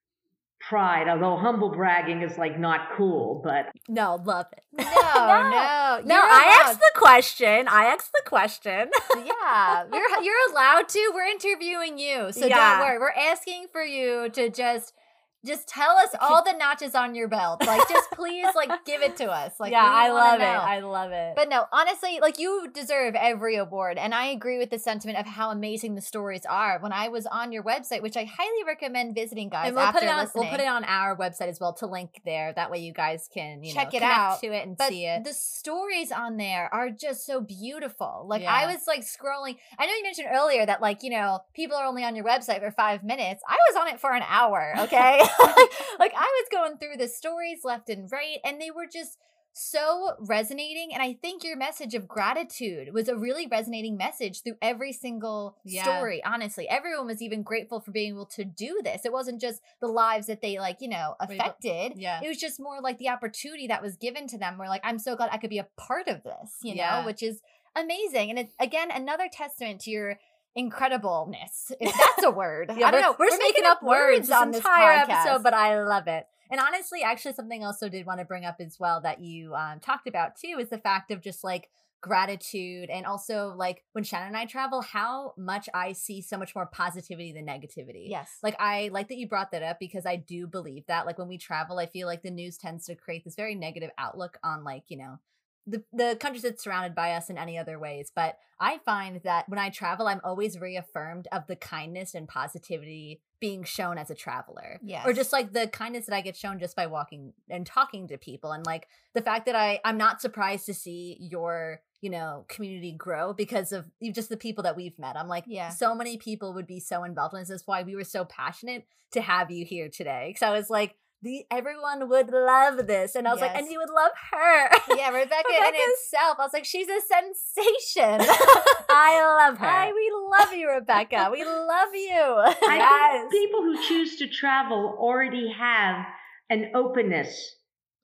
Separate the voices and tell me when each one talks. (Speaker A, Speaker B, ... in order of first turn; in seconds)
Speaker A: 0.6-3.8, 132.7-137.6
Speaker B: 3.9-10.0, 12.4-12.9, 16.1-16.4, 17.6-19.1, 19.6-21.4, 29.6-35.3, 38.4-38.8, 44.8-45.6, 55.7-56.1, 61.3-62.2, 66.7-67.1, 71.9-72.2, 72.8-126.0, 128.2-133.4
Speaker C: 4.8-6.8, 9.2-20.7, 21.4-30.6, 33.7-75.4, 88.0-88.4, 104.8-105.2, 115.5-115.8, 123.3-123.7, 124.9-128.9, 129.6-129.9, 130.9-131.5